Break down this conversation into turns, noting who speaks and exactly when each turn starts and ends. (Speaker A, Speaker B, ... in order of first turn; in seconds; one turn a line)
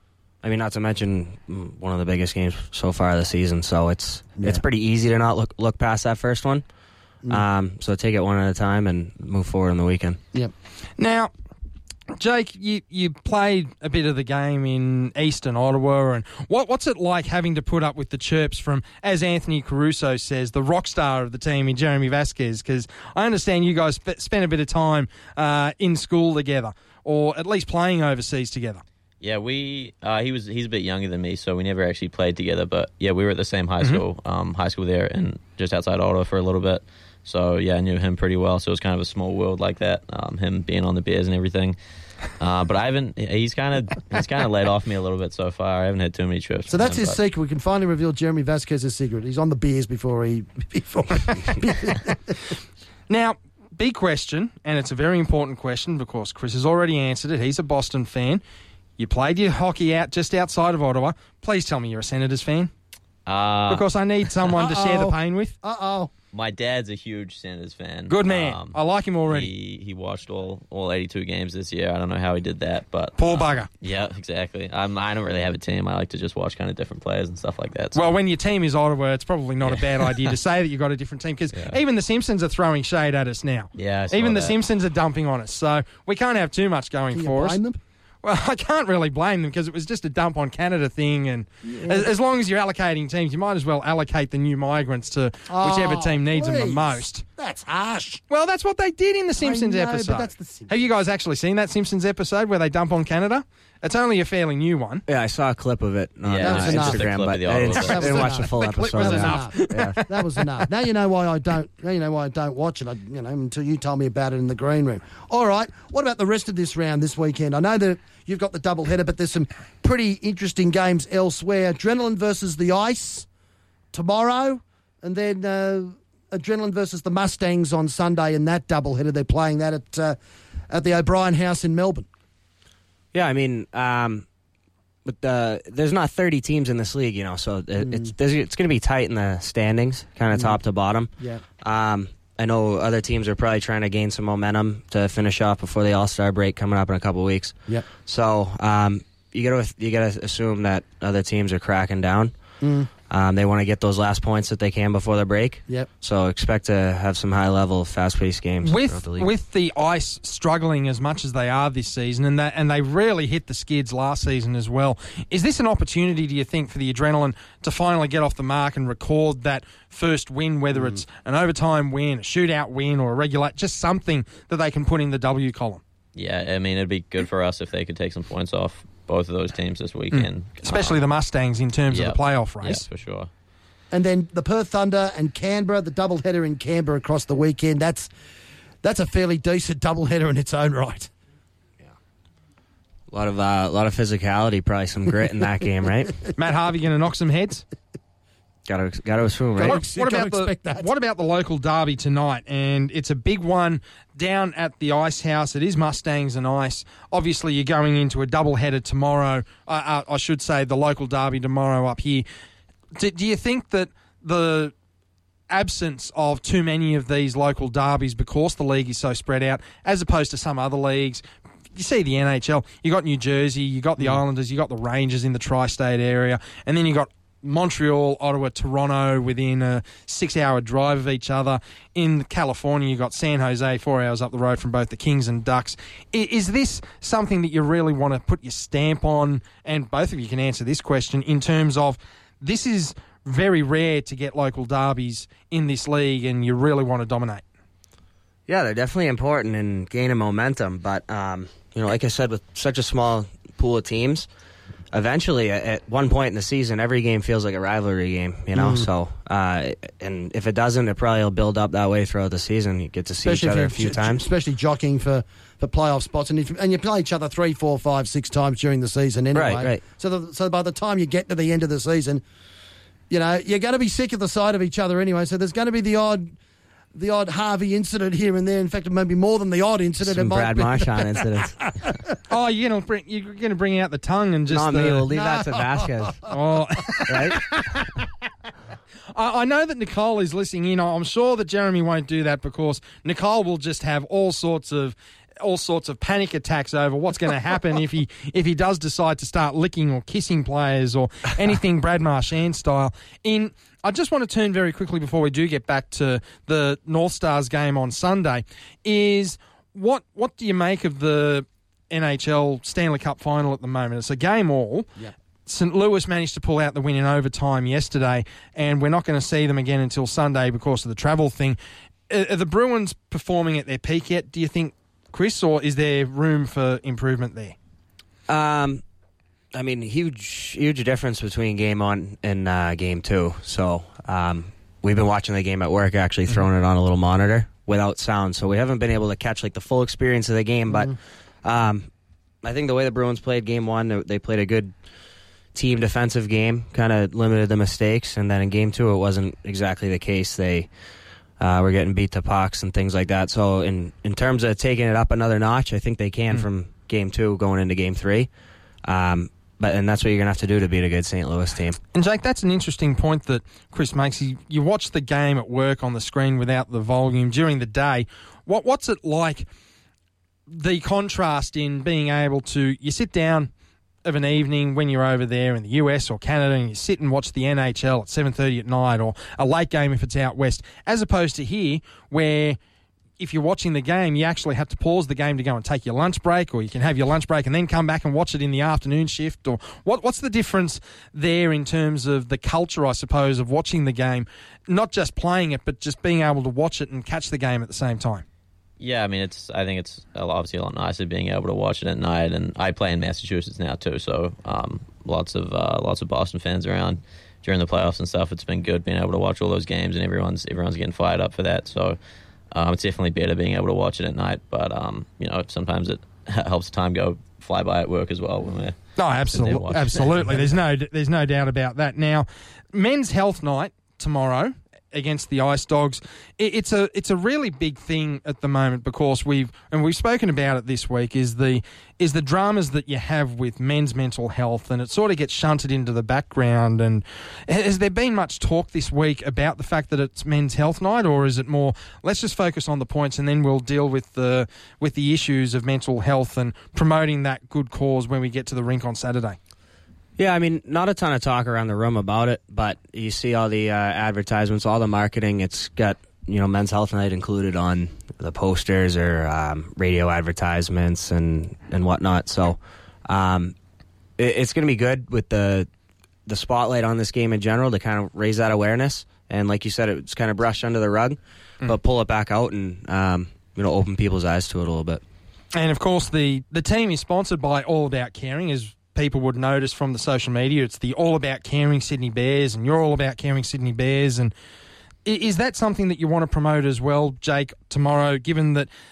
Speaker A: 0.4-6.6
Speaker A: 7.3-10.2
Speaker B: 11.0-11.3
Speaker B: 12.1-28.8
Speaker C: 29.2-41.8
Speaker C: 42.3-47.2
Speaker D: 46.7-52.5
Speaker B: 53.1-58.4
Speaker B: 59.0-62.7
Speaker C: 63.2-63.9
Speaker B: 63.7-65.5
Speaker D: 64.5-66.1
Speaker C: 66.3-78.1
Speaker B: 68.1-69.5
Speaker B: 73.2-73.7
Speaker B: 77.9-87.6
Speaker C: 79.6-80.3
Speaker C: 81.5-81.8
Speaker C: 83.8-84.6
Speaker D: 87.1-87.8
Speaker B: 88.2-97.2
Speaker D: 91.7-92.1
Speaker D: 95.5-98.2
Speaker B: 98.3-105.0
Speaker D: 99.4-100.7
Speaker A: 105.1-110.0
Speaker C: 106.2-108.1
Speaker D: 106.4-107.2
Speaker D: 107.7-123.3
Speaker B: 107.8-110.6
Speaker D: 123.9-130.2
Speaker D: 130.7-132.1
Speaker A: 133.1-134.3
Speaker A: 135.0-152.3
Speaker D: 137.8-138.1
Speaker D: 152.6-152.9
Speaker A: 153.1-159.3
Speaker B: 158.6-175.8
Speaker D: 170.7-171.0
Speaker C: 176.1-181.0
Speaker B: 180.1-182.8
Speaker C: 181.9-183.3
Speaker D: 183.9-188.1
Speaker D: 188.8-191.1
Speaker A: 193.1-196.2
Speaker B: 196.3-197.6
Speaker A: 198.7-199.8
Speaker D: 199.6-200.9
Speaker B: 199.6-212.3
Speaker B: 212.9-214.7
Speaker B: 215.5-221.2
Speaker B: 221.7-247.4
Speaker A: 248.5-254.3
Speaker A: 254.9-264.3
Speaker D: 258.6-258.9
Speaker D: 263.2-272.2
Speaker A: 269.3-269.8
Speaker D: 273.1-276.3
Speaker D: 276.9-281.5
Speaker A: 280.0-281.9
Speaker B: 282.3-285.1
Speaker A: 284.5-286.2
Speaker D: 285.1-286.3
Speaker B: 286.3-287.4
Speaker A: 287.1-287.6
Speaker B: 289.1-314.9
Speaker B: 315.4-321.6
Speaker B: 322.1-327.6
Speaker A: 328.3-328.8
Speaker A: 329.5-341.9
Speaker A: 342.4-344.8
Speaker A: 345.5-350.7
Speaker A: 351.4-358.3
Speaker A: 358.8-361.8
Speaker B: 361.9-369.4
Speaker B: 370.5-373.5
Speaker B: 374.0-382.6
Speaker B: 383.2-398.2
Speaker C: 398.8-412.0
Speaker C: 412.5-420.4
Speaker B: 419.0-449.4
Speaker A: 450.2-463.5
Speaker A: 464.2-465.7
Speaker A: 466.2-475.0
Speaker B: 475.5-484.3
Speaker B: 485.0-488.7